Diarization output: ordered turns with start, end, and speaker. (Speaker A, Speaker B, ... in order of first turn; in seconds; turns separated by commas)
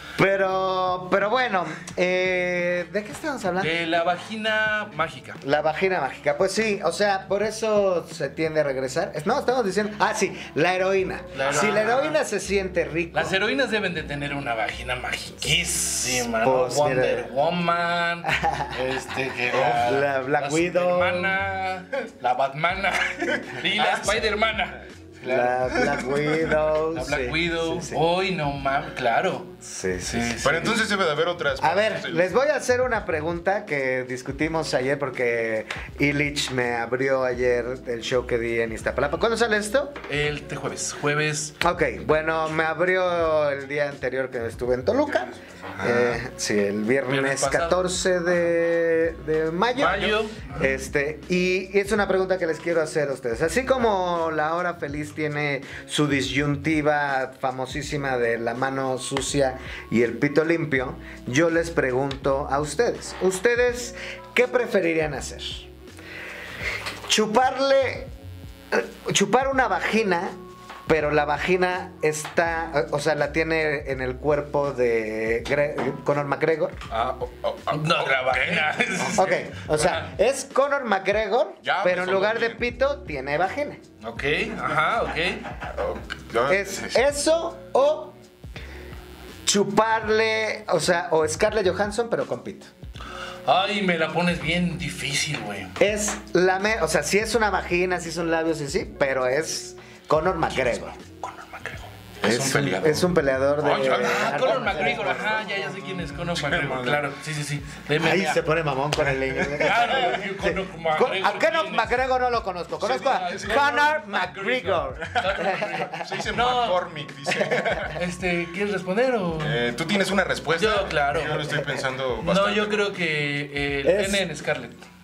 Speaker A: 0.2-3.8, Speaker B: 3.6-5.4, Speaker A: 5.4-13.4, Speaker B: 11.3-12.2, Speaker B: 13.1-26.0, Speaker A: 16.2-17.3, Speaker A: 18.3-18.8, Speaker C: 19.5-20.0, Speaker A: 19.5-21.4, Speaker C: 23.8-24.1, Speaker A: 25.2-28.0, Speaker C: 25.9-26.6, Speaker B: 26.9-30.8, Speaker A: 29.6-30.8, Speaker C: 30.4-32.3, Speaker A: 31.6-40.0, Speaker B: 40.1-41.6, Speaker A: 41.6-65.7, Speaker C: 45.7-46.2, Speaker B: 47.1-47.9, Speaker B: 49.7-50.5, Speaker A: 67.1-68.1, Speaker A: 68.7-70.4, Speaker A: 70.9-76.8, Speaker C: 76.9-79.4, Speaker B: 77.7-80.1, Speaker A: 79.2-83.8, Speaker C: 81.6-82.6, Speaker B: 84.0-85.5, Speaker C: 85.7-87.0, Speaker A: 86.5-88.2, Speaker A: 89.5-92.7, Speaker B: 93.5-95.8, Speaker A: 95.8-100.9, Speaker B: 100.5-101.9, Speaker C: 102.2-107.1, Speaker A: 102.2-105.5, Speaker B: 103.6-108.4, Speaker A: 108.0-116.0, Speaker C: 109.4-109.9, Speaker B: 109.6-112.0, Speaker B: 112.8-116.8, Speaker C: 116.0-118.0, Speaker A: 117.3-117.8, Speaker B: 117.9-119.6, Speaker C: 119.4-122.9, Speaker B: 120.6-121.5, Speaker B: 122.2-124.8, Speaker A: 123.8-124.3